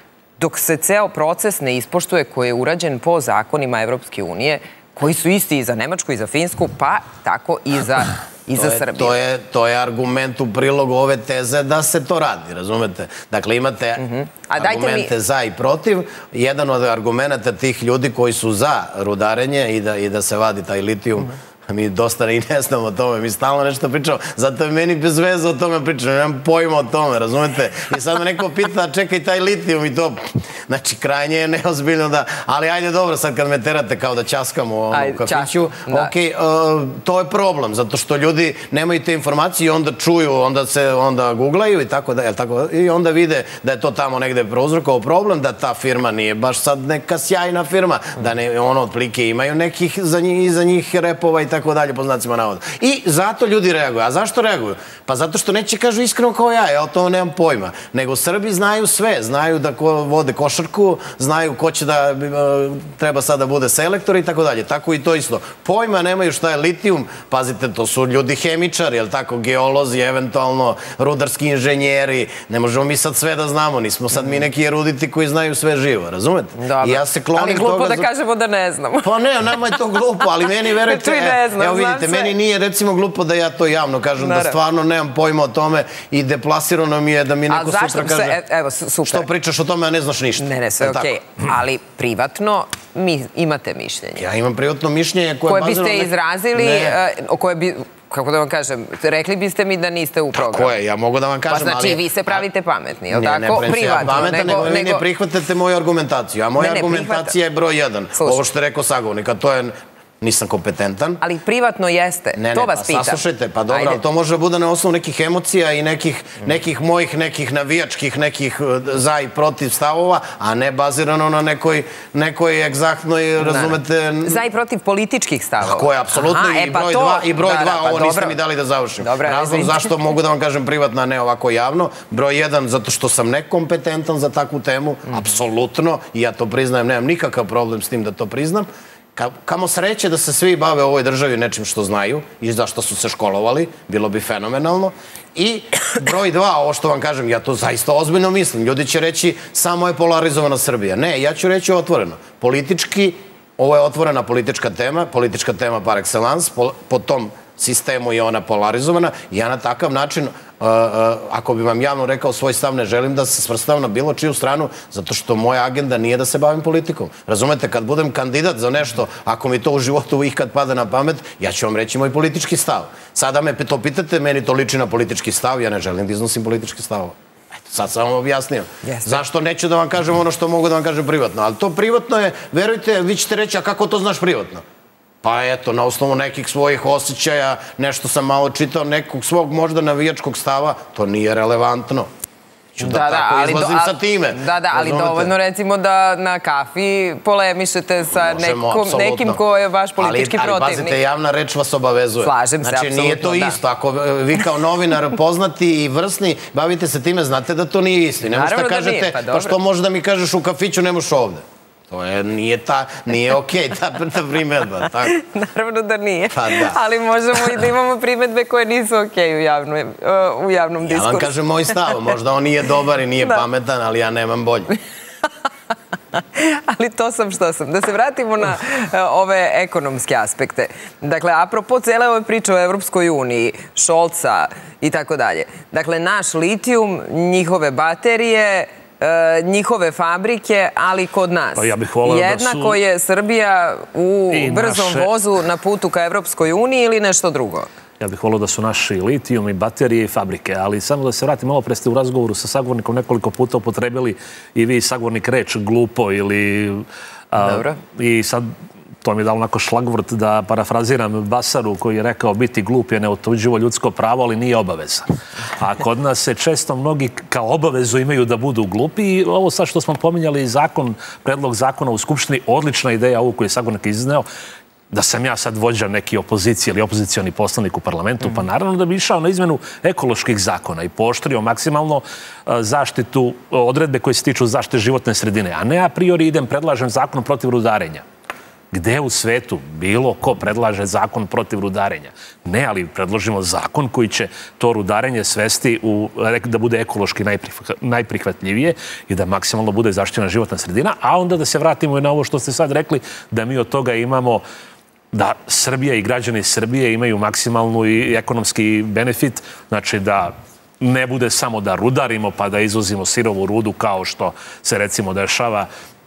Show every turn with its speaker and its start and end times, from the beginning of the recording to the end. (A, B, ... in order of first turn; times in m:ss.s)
0:00.4-0:09.1 A
0:08.6-1:18.1 B
0:14.0-0:15.1 A
0:34.9-0:36.1 A
1:16.6-1:19.1 A
1:19.0-1:28.4 B
1:19.6-1:22.3 A
1:24.2-1:24.6 A
1:27.5-1:29.3 A
1:29.1-1:31.2 B
1:30.4-1:34.2 A
1:34.2-1:37.0 B
1:35.5-1:40.7 A
1:40.3-1:42.4 B
1:41.5-1:45.0 A
1:43.1-1:51.2 B
1:46.6-1:47.3 A
1:48.2-1:48.4 A
1:51.2-1:54.0 A
1:52.3-2:04.4 B
2:03.4-2:08.4 A
2:05.6-3:04.6 B
2:09.0-2:09.9 A
2:58.8-2:59.2 A
3:05.2-3:12.1 B
3:12.7-3:15.3 B
3:12.8-3:21.0 A
3:18.1-3:19.4 B
3:20.0-3:35.2 B
3:22.2-3:23.6 A
3:28.2-3:29.6 A
3:35.0-3:41.9 A
3:36.3-3:36.8 B
3:40.8-3:44.7 B
3:46.2-4:07.7 A
4:01.6-4:02.8 C
4:04.3-4:05.1 C
4:08.0-4:18.5 C
4:17.4-4:17.8 A
4:19.0-4:34.3 C
4:34.9-4:48.0 C
4:48.7-5:04.4 C
5:05.1-5:15.7 C